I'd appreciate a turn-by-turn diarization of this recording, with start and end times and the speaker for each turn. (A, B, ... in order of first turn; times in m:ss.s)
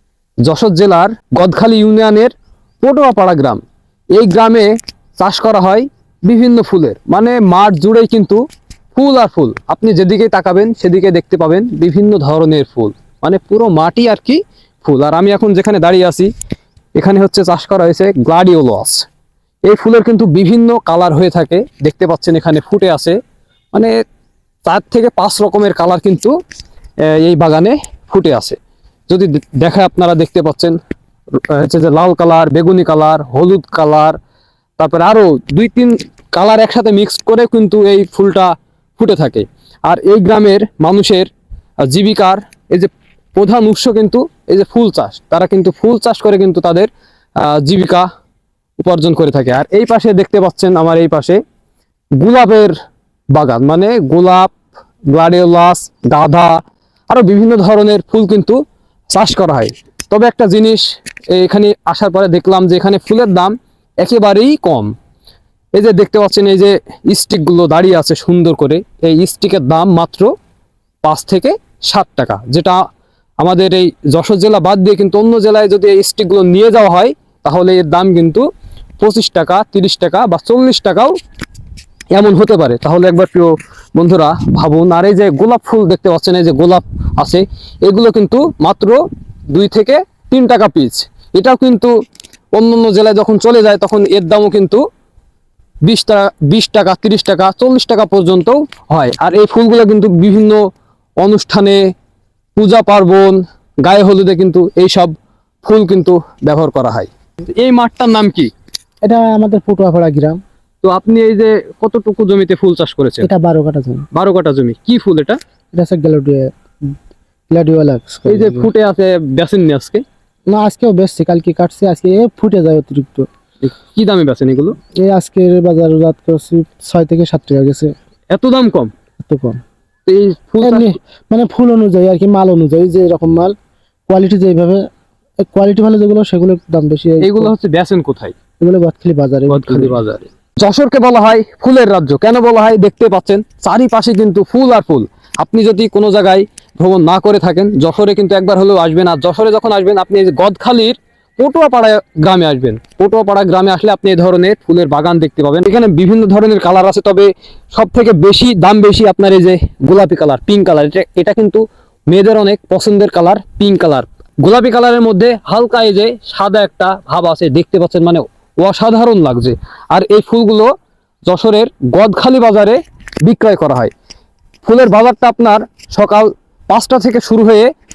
0:00.4-0:03.6 A
0:04.1-0:08.4 A
0:09.0-0:16.3 A
0:17.0-0:19.0 A
0:19.7-0:23.2 A
0:24.7-0:26.3 A
0:27.0-0:28.6 A
0:29.1-0:30.8 A
0:31.4-0:34.2 A
0:34.8-0:41.3 A
0:41.8-0:48.1 A
0:48.8-0:51.4 A
0:52.2-0:52.8 A
0:53.3-0:54.6 A
0:55.1-1:04.9 A
1:05.8-1:10.4 A
1:11.0-1:12.8 A
1:13.4-1:18.5 A
1:19.0-1:21.2 A
1:22.1-1:31.9 A
1:32.5-1:34.8 A
1:35.8-1:40.6 A
1:41.2-1:41.8 A
1:42.6-1:48.5 A
1:49.0-1:50.4 B
1:50.8-1:53.3 A
1:53.2-1:54.1 B
1:54.1-1:55.4 A
1:55.7-1:56.5 B
1:57.5-1:58.7 B
1:58.3-2:00.0 A
2:00.5-2:03.3 B
2:03.6-2:04.8 A
2:05.0-2:07.9 B
2:08.3-2:08.9 A
2:09.2-2:09.6 B
2:10.1-2:10.9 A
2:10.6-2:13.5 B
2:14.1-2:14.8 B
2:15.4-2:17.5 B
2:17.2-2:18.4 A
2:18.6-2:20.0 B
2:19.5-2:50.7 A
2:51.3-2:53.9 A
2:54.6-2:57.7 A